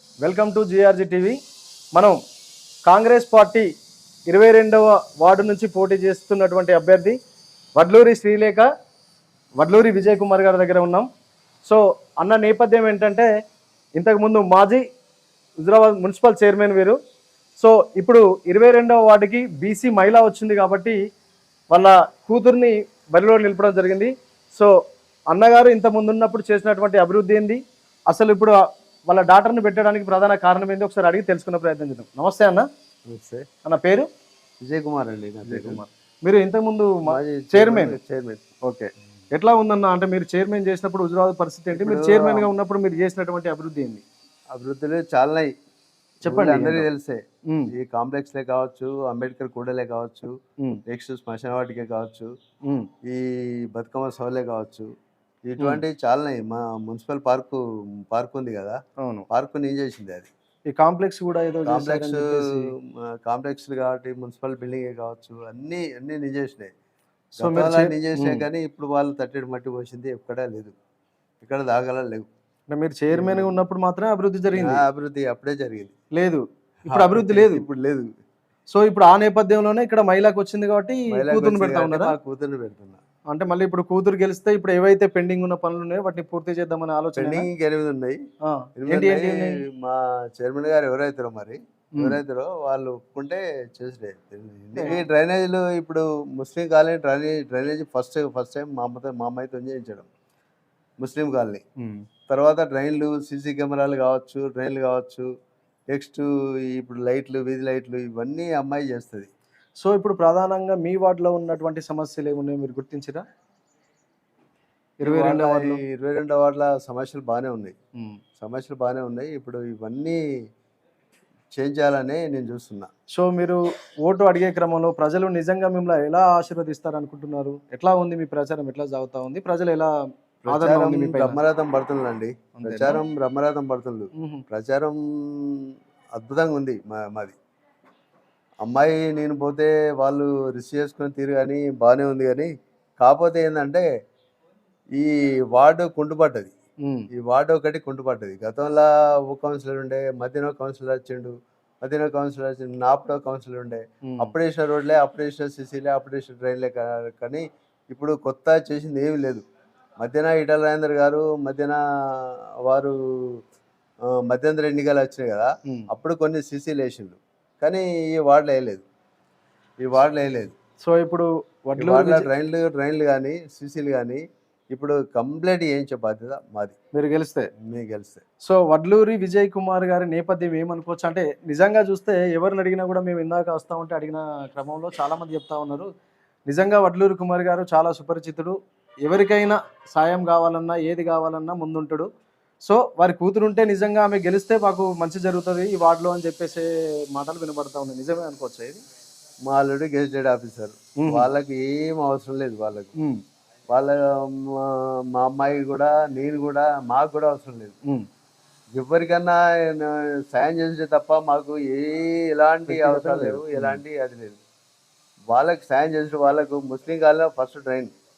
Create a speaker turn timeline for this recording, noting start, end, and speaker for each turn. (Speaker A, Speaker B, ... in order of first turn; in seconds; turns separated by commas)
Speaker A: 0.2-1.4, Speaker A: 2.9-3.7, Speaker A: 4.3-7.2, Speaker A: 7.8-8.7, Speaker A: 9.6-11.1, Speaker A: 11.6-13.3, Speaker A: 14.0-14.8, Speaker A: 15.6-17.0, Speaker A: 17.6-21.0, Speaker A: 21.7-24.7, Speaker A: 25.3-32.7, Speaker B: 33.1-33.5, Speaker A: 33.6-34.1, Speaker B: 34.6-35.8, Speaker A: 35.5-38.0, Speaker B: 37.0-38.4, Speaker A: 38.6-44.0, Speaker B: 41.7-42.5, Speaker B: 44.5-45.5, Speaker A: 46.2-46.9, Speaker B: 46.2-50.3, Speaker B: 50.9-52.3, Speaker B: 53.0-54.9, Speaker B: 55.5-58.8, Speaker A: 59.0-59.2, Speaker B: 59.3-60.3, Speaker A: 60.7-62.7, Speaker B: 61.7-66.7, Speaker B: 67.4-70.7, Speaker A: 67.4-68.4, Speaker B: 71.4-72.3, Speaker A: 72.7-74.8, Speaker B: 73.1-73.5, Speaker B: 74.5-75.9, Speaker A: 76.1-77.7, Speaker B: 76.9-78.1, Speaker A: 78.7-82.1, Speaker B: 81.1-83.0, Speaker A: 83.3-87.5, Speaker B: 87.2-88.2, Speaker A: 88.5-89.6, Speaker B: 88.8-100.1, Speaker A: 94.8-95.0, Speaker B: 101.0-101.6, Speaker B: 102.3-105.3, Speaker B: 105.9-109.3, Speaker A: 109.8-113.2, Speaker A: 115.0-115.8, Speaker B: 115.0-117.7, Speaker B: 118.4-120.2, Speaker B: 121.5-122.9, Speaker A: 123.1-129.9, Speaker B: 130.4-137.4, Speaker A: 130.5-131.4, Speaker A: 132.6-133.0, Speaker A: 134.2-134.4, Speaker B: 138.6-143.8, Speaker B: 145.0-146.5, Speaker B: 147.1-159.4, Speaker B: 160.0-163.4, Speaker B: 164.1-168.8, Speaker B: 169.8-170.5, Speaker A: 170.8-172.3, Speaker B: 171.8-176.8, Speaker A: 176.9-177.5, Speaker B: 177.7-178.2, Speaker A: 178.4-185.9, Speaker A: 186.5-192.1, Speaker A: 192.7-198.8, Speaker B: 199.5-202.9, Speaker A: 201.0-201.3, Speaker A: 203.0-203.2, Speaker B: 203.7-207.8, Speaker B: 208.7-214.4, Speaker A: 212.7-213.8, Speaker B: 215.3-217.9